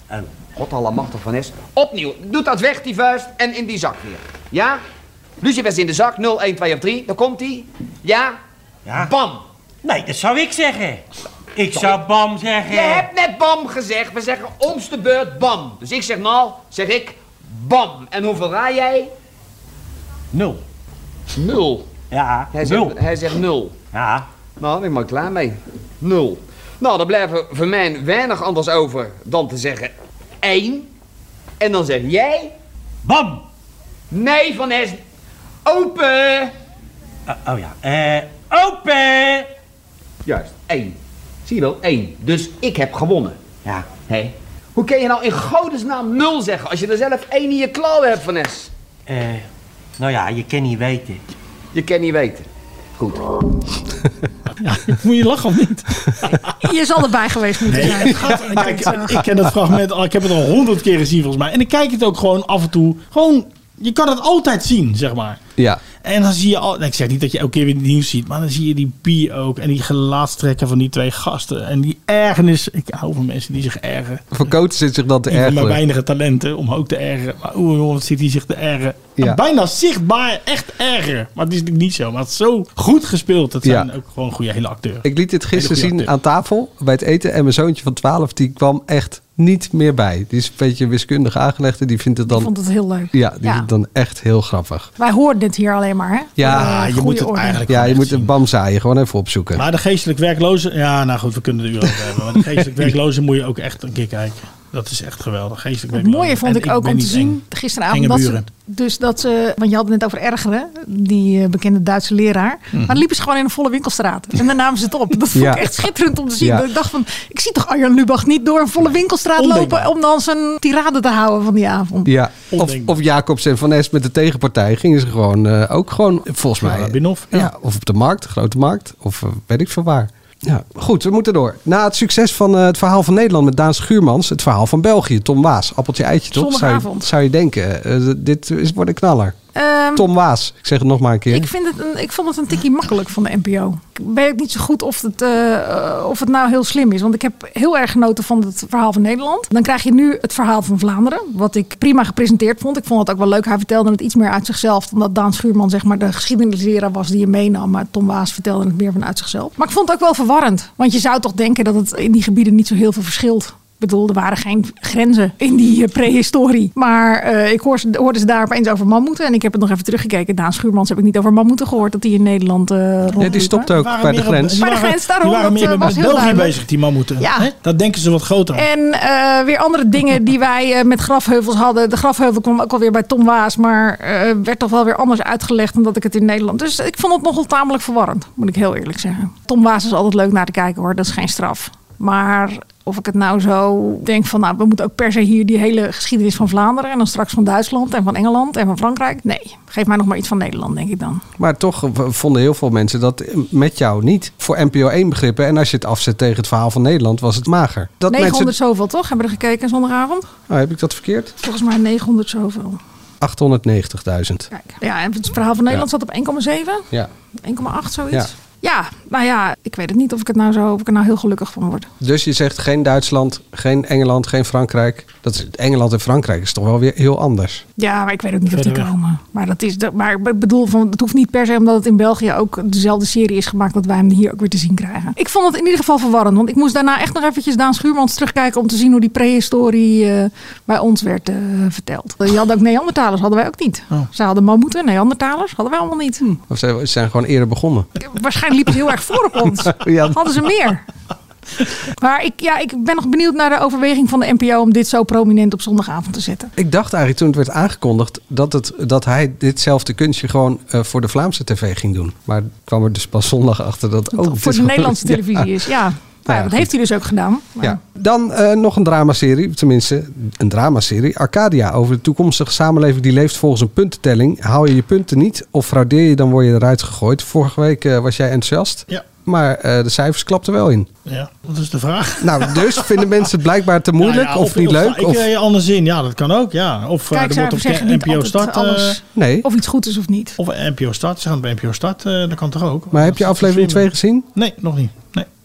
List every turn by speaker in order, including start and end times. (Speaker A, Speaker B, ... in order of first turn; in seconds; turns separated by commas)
Speaker A: 0.5-4.8, Speaker A: 5.4-8.4, Speaker A: 8.9-9.4, Speaker B: 9.8-11.0, Speaker B: 11.6-13.1, Speaker A: 12.7-19.1, Speaker A: 21.3-21.9, Speaker B: 22.1-23.0, Speaker A: 22.5-23.8, Speaker B: 23.9-24.2, Speaker A: 24.6-30.9, Speaker A: 31.6-32.5, Speaker B: 33.0-33.4, Speaker A: 34.1-35.0, Speaker A: 35.6-36.5, Speaker B: 37.3-39.5, Speaker A: 40.2-48.7, Speaker B: 43.6-43.9, Speaker B: 49.1-49.5, Speaker B: 50.0-51.2, Speaker A: 51.7-52.5, Speaker C: 54.6-56.5, Speaker D: 56.6-59.2, Speaker C: 57.6-65.4, Speaker E: 65.6-65.8, Speaker C: 65.9-74.3, Speaker E: 74.3-75.8, Speaker C: 75.3-86.1, Speaker E: 83.6-83.9, Speaker E: 85.0-92.5, Speaker D: 92.3-93.7, Speaker E: 93.1-94.9, Speaker D: 95.0-97.6, Speaker E: 96.4-96.9, Speaker C: 96.4-98.3, Speaker E: 97.7-99.6, Speaker C: 99.5-108.4, Speaker D: 105.9-122.1, Speaker C: 112.7-113.0, Speaker E: 115.3-115.7, Speaker E: 116.4-116.7, Speaker C: 119.4-119.9, Speaker E: 122.0-139.3, Speaker C: 122.5-122.9, Speaker C: 126.6-127.5, Speaker D: 136.3-137.1, Speaker D: 139.5-140.1, Speaker E: 139.9-141.5, Speaker D: 141.3-173.7, Speaker C: 173.1-178.6, Speaker E: 173.2-174.6, Speaker D: 174.6-176.6, Speaker D: 177.2-177.5, Speaker D: 178.5-201.2, Speaker E: 201.4-208.5, Speaker D: 208.1-210.3, Speaker E: 210.5-211.3, Speaker D: 211.4-212.8, Speaker E: 213.2-214.5, Speaker D: 214.5-216.9, Speaker D: 217.4-221.9, Speaker E: 222.0-227.6, Speaker D: 227.8-246.2, Speaker C: 228.5-228.9, Speaker E: 246.2-247.9, Speaker D: 248.0-250.8, Speaker E: 249.6-250.5, Speaker D: 251.9-256.5, Speaker E: 256.6-265.5, Speaker D: 264.1-267.8, Speaker E: 266.3-266.7, Speaker E: 267.6-280.9, Speaker C: 281.0-283.1, Speaker E: 282.2-285.3, Speaker C: 284.0-289.0, Speaker D: 287.1-290.4, Speaker E: 289.1-289.4, Speaker C: 290.4-295.3, Speaker E: 292.9-294.3